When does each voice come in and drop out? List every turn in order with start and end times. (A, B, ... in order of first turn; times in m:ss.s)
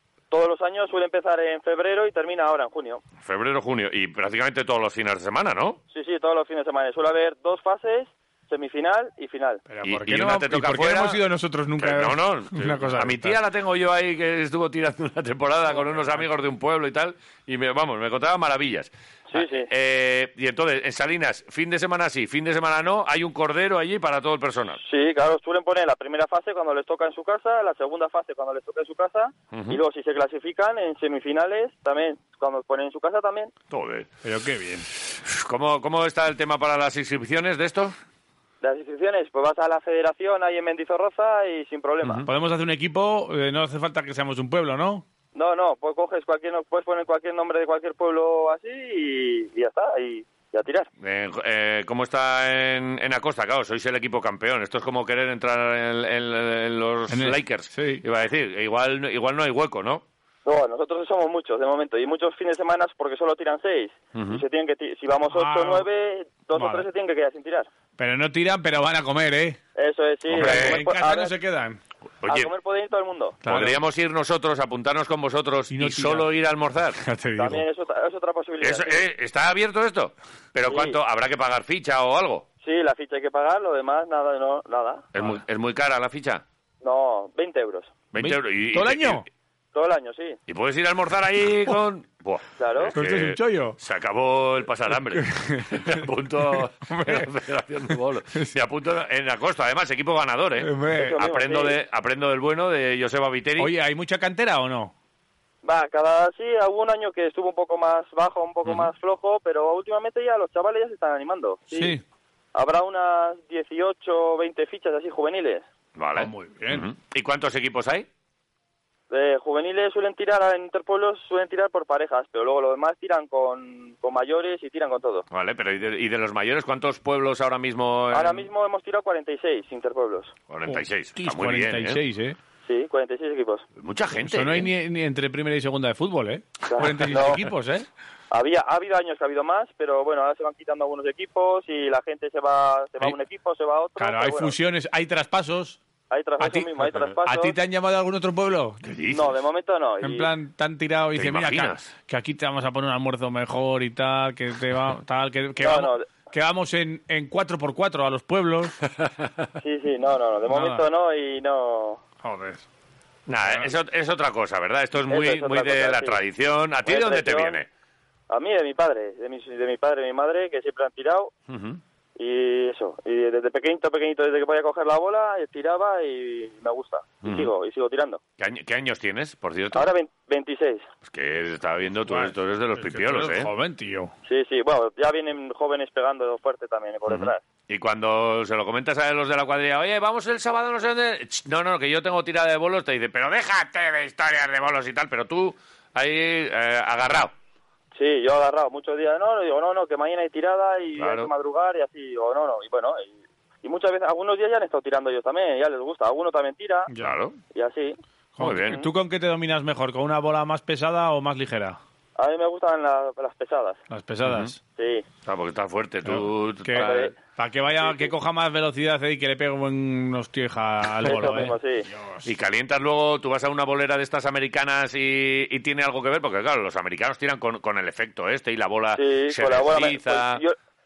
0:00.3-0:03.0 A
0:03.2-0:05.8 B
0:05.9-0:09.6 A
0:09.7-0:13.4 C
0:09.8-0:11.2 B
0:11.8-0:24.8 B
0:19.3-0:19.7 A
0:24.8-0:33.5 A
0:29.5-0:29.8 B
0:33.7-0:34.1 B
0:34.2-0:34.9 C
0:35.0-0:37.9 B
0:38.6-0:42.2 A
0:42.0-0:42.3 B
0:42.3-0:45.0 C
0:45.3-0:50.9 A
0:51.0-1:00.0 B
0:57.1-0:58.0 C
1:00.4-1:07.7 A
1:04.1-1:04.4 B
1:05.3-1:05.9 C
1:06.5-1:06.9 C
1:08.0-1:09.6 C
1:09.8-1:11.4 A
1:10.3-1:10.8 B
1:10.4-1:11.8 C
1:12.2-1:12.5 B
1:12.2-1:13.4 A
1:13.4-1:13.8 C
1:13.4-1:17.0 B
1:15.7-1:16.3 C
1:17.0-1:17.6 C
1:17.4-1:19.0 A
1:18.6-1:22.4 B
1:20.7-1:21.0 A
1:22.6-1:25.0 A
1:25.1-1:26.4 B
1:26.8-1:27.9 A
1:28.1-1:29.3 B
1:28.2-1:29.2 C
1:29.7-1:30.4 A
1:30.5-1:43.7 B
1:32.6-1:32.9 A
1:32.9-1:33.8 C
1:35.1-1:35.8 C
1:36.5-1:37.3 C
1:40.6-1:41.2 C
1:40.9-1:41.8 A
1:43.6-1:44.9 C
1:45.6-1:52.0 A
1:48.6-1:48.9 B
1:51.7-1:52.0 C
1:52.5-1:55.6 A
1:55.9-1:58.0 B
1:56.2-1:56.9 C
1:59.1-2:05.2 A
2:05.3-2:08.5 B
2:08.1-2:10.3 A
2:10.5-2:12.0 B
2:10.7-2:12.4 C
2:12.6-2:13.6 A
2:13.8-2:14.7 B
2:14.2-2:17.9 C
2:16.7-2:17.4 A
2:18.3-2:24.5 A
2:24.0-2:25.8 C
2:26.1-2:27.6 A
2:26.4-2:28.8 C
2:28.8-2:29.3 B
2:29.1-2:30.3 A
2:30.0-2:38.8 C
2:31.1-2:31.9 B
2:35.6-2:36.1 A
2:38.8-2:39.3 B
2:39.6-2:42.0 A
2:40.5-2:40.8 C
2:42.2-2:42.6 C
2:43.3-2:47.7 B
2:45.1-2:46.2 A
2:46.8-2:47.6 A
2:48.3-2:51.3 A
2:51.5-2:51.8 B
2:52.2-2:58.2 A
2:57.2-2:57.5 B
2:58.4-2:59.9 B
2:59.7-3:00.9 A
3:01.0-3:03.5 B
3:02.0-3:04.1 C
3:04.2-3:07.4 A
3:07.1-3:17.3 B
3:17.9-3:26.9 A
3:21.0-3:21.3 B
3:26.9-3:27.2 C
3:27.0-3:27.4 B
3:27.5-3:28.0 A
3:28.4-3:31.8 C
3:28.4-3:28.9 B
3:32.2-3:33.8 A
3:33.9-3:34.6 C
3:34.2-3:34.5 B
3:34.8-3:35.0 A
3:35.2-3:37.1 B
3:36.0-3:42.3 C
3:36.7-3:37.1 A
3:37.8-3:38.1 A
3:41.0-3:41.9 A
3:42.2-3:50.4 B
3:48.9-3:50.6 A